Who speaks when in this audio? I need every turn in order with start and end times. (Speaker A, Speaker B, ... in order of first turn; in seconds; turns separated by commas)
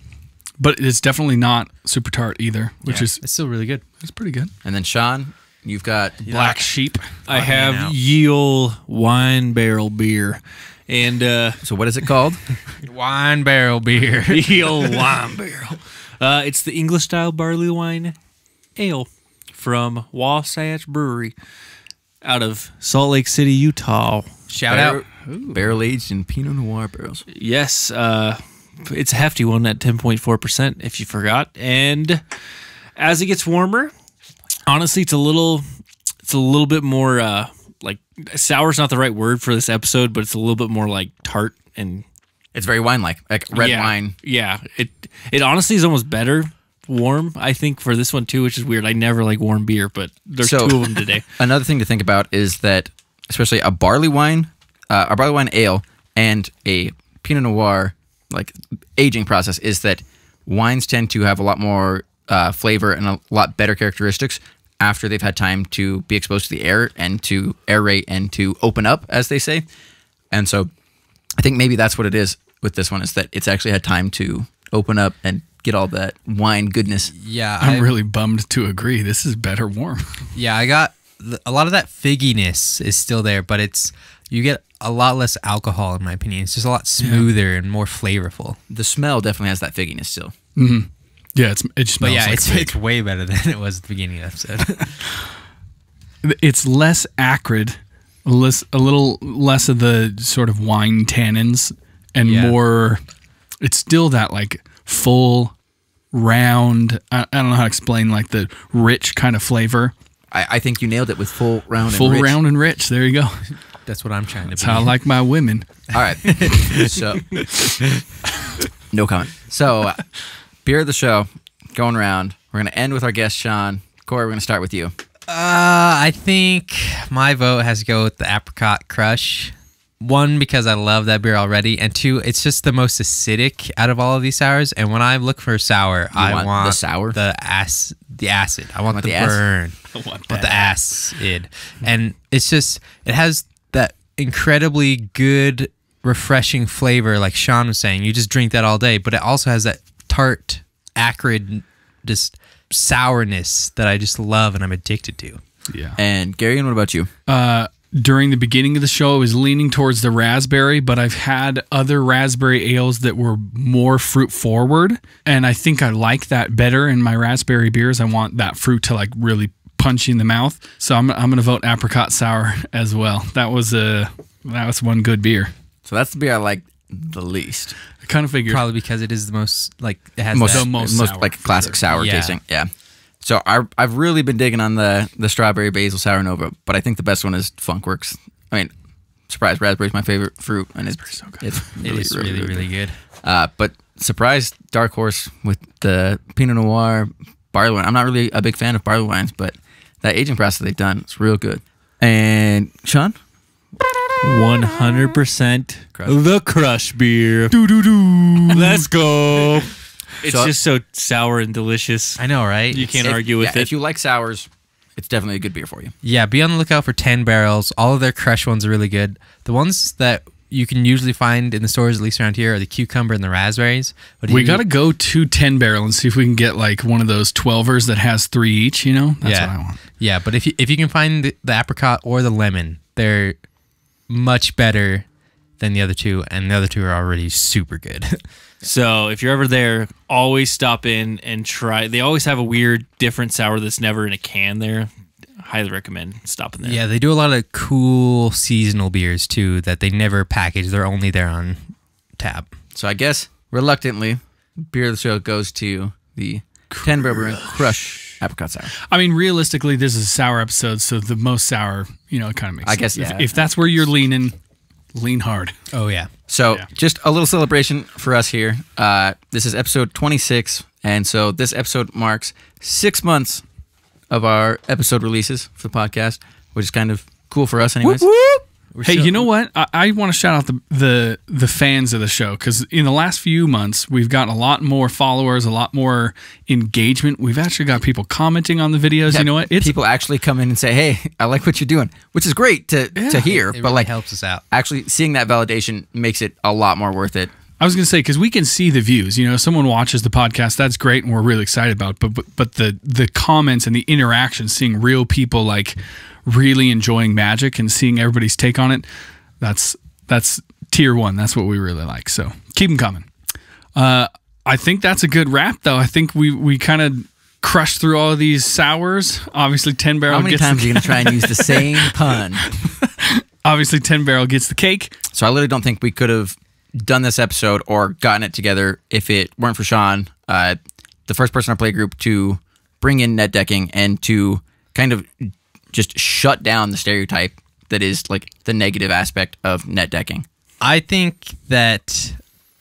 Speaker A: 0.6-3.2, Speaker B: 2.9-3.8, Speaker A: 3.9-4.5, Speaker C: 4.6-6.3, Speaker B: 6.3-8.0, Speaker A: 6.3-7.1, Speaker D: 7.3-11.6, Speaker C: 11.6-12.4, Speaker B: 12.8-14.7, Speaker D: 14.3-18.1, Speaker D: 18.8-21.4, Speaker D: 22.2-24.4, Speaker B: 24.5-25.0, Speaker C: 24.6-27.2, Speaker A: 25.3-25.6, Speaker D: 27.3-32.2, Speaker D: 33.0-33.9, Speaker D: 34.6-35.6, Speaker D: 36.2-42.0, Speaker C: 42.5-44.1, Speaker D: 43.5-51.3, Speaker C: 50.4-50.8, Speaker C: 51.4-69.7, Speaker C: 70.3-70.7, Speaker C: 71.4-77.1, Speaker B: 77.1-77.9, Speaker A: 77.6-80.2, Speaker B: 80.3-88.6, Speaker A: 87.0-87.3, Speaker C: 88.7-90.3, Speaker A: 90.6-92.7, Speaker B: 92.0-95.0, Speaker A: 96.2-103.0, Speaker B: 102.2-102.5, Speaker A: 103.6-105.5, Speaker A: 106.1-109.9, Speaker C: 110.3-112.4, Speaker A: 111.8-113.5, Speaker B: 113.8-114.9, Speaker A: 114.6-115.7, Speaker C: 115.9-117.5, Speaker B: 116.3-117.8, Speaker C: 118.9-120.1, Speaker C: 120.6-124.9, Speaker B: 125.3-139.8, Speaker C: 136.1-137.2, Speaker C: 138.9-139.4, Speaker A: 139.9-140.8, Speaker B: 140.3-155.4, Speaker A: 155.7-156.0, Speaker C: 156.0-157.1, Speaker A: 157.3-175.5, Speaker C: 175.8-177.8, Speaker A: 178.0-178.6, Speaker B: 178.5-180.7, Speaker C: 180.3-188.7, Speaker A: 180.4-181.8, Speaker B: 181.9-182.4, Speaker C: 189.3-192.7, Speaker A: 191.1-191.5, Speaker B: 191.8-192.9, Speaker C: 193.2-203.2, Speaker D: 204.2-207.6, Speaker C: 208.0-208.6, Speaker D: 208.5-213.7, Speaker C: 210.2-210.5, Speaker B: 212.2-213.1, Speaker C: 213.0-215.9, Speaker B: 216.0-224.6, Speaker A: 224.3-229.8, Speaker B: 229.2-233.4, Speaker B: 234.1-235.1, Speaker B: 235.6-238.2, Speaker D: 238.6-244.9, Speaker D: 245.4-246.8, Speaker B: 246.6-252.5, Speaker C: 252.7-258.7, Speaker A: 256.7-257.7, Speaker A: 258.9-264.4, Speaker C: 262.6-263.3, Speaker A: 264.9-265.6, Speaker B: 265.7-266.1, Speaker C: 266.3-273.4, Speaker C: 274.1-278.1, Speaker A: 277.8-289.7, Speaker B: 278.7-279.3, Speaker C: 289.1-293.9, Speaker A: 292.9-293.3, Speaker B: 293.2-294.4, Speaker C: 294.5-297.3, Speaker A: 297.6-308.9, Speaker A: 309.4-313.1, Speaker A: 313.8-324.9, Speaker C: 320.1-322.6, Speaker C: 325.1-340.2, Speaker B: 340.6-342.2